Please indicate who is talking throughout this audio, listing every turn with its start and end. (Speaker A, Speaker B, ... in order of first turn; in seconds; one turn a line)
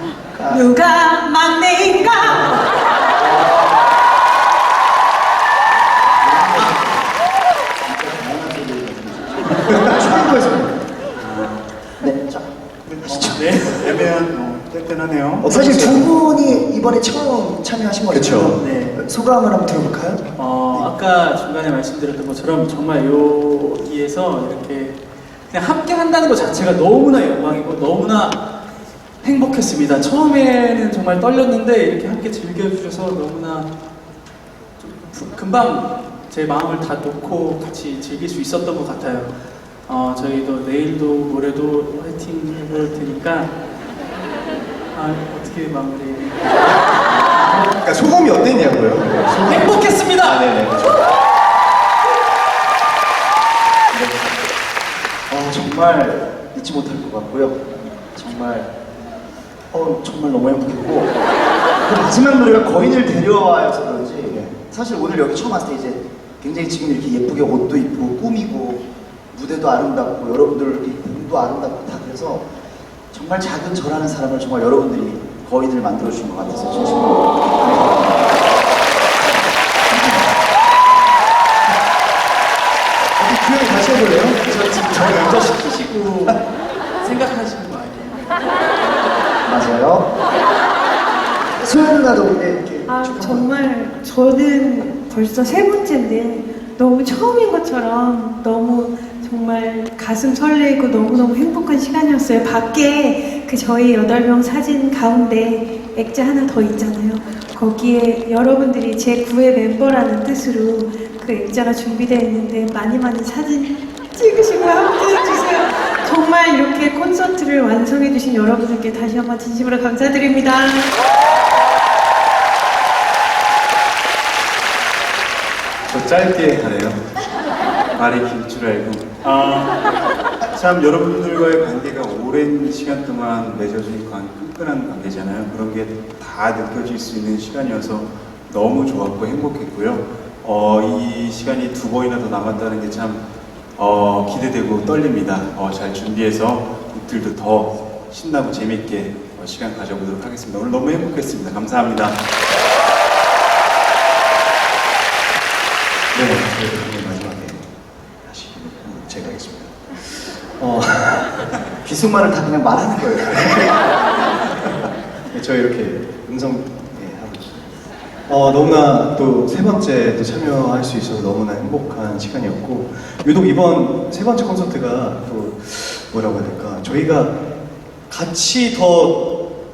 Speaker A: 0.3-0.7
Speaker B: 0.5-2.6
Speaker C: 6.2-7.1
Speaker C: 7.8-10.2
Speaker D: 9.7-10.7
Speaker C: 12.1-12.5
Speaker E: 12.8-15.4
Speaker A: 13.0-13.4
Speaker F: 13.0-14.1
Speaker D: 15.4-16.6
Speaker A: 15.4-20.9
Speaker D: 18.1-18.6
Speaker F: 18.6-19.0
Speaker F: 20.4-24.9
Speaker F: 25.5-28.4
Speaker F: 29.2-33.7
Speaker F: 34.8-39.3
Speaker F: 39.9-43.5
Speaker F: 44.9-47.7
Speaker D: 47.3-51.0
Speaker F: 49.3-50.4
Speaker C: 55.3-58.7
Speaker C: 59.7-61.1
Speaker C: 61.8-68.8
Speaker C: 69.3-72.4
Speaker C: 73.1-78.3
Speaker C: 79.9-80.2
Speaker C: 83.6-84.3
Speaker F: 84.3-86.4
Speaker F: 87.0-88.3
Speaker C: 89.5-90.0
Speaker A: 91.6-93.5
Speaker B: 92.8-120.9
Speaker E: 125.9-127.0
Speaker E: 127.9-129.8
Speaker E: 130.5-143.2
Speaker E: 143.8-152.2
Speaker D: 156.1-157.7
Speaker D: 158.2-161.5
Speaker C: 161.8-163.8
Speaker D: 165.3-167.7
Speaker D: 168.3-177.4
Speaker D: 178.1-179.2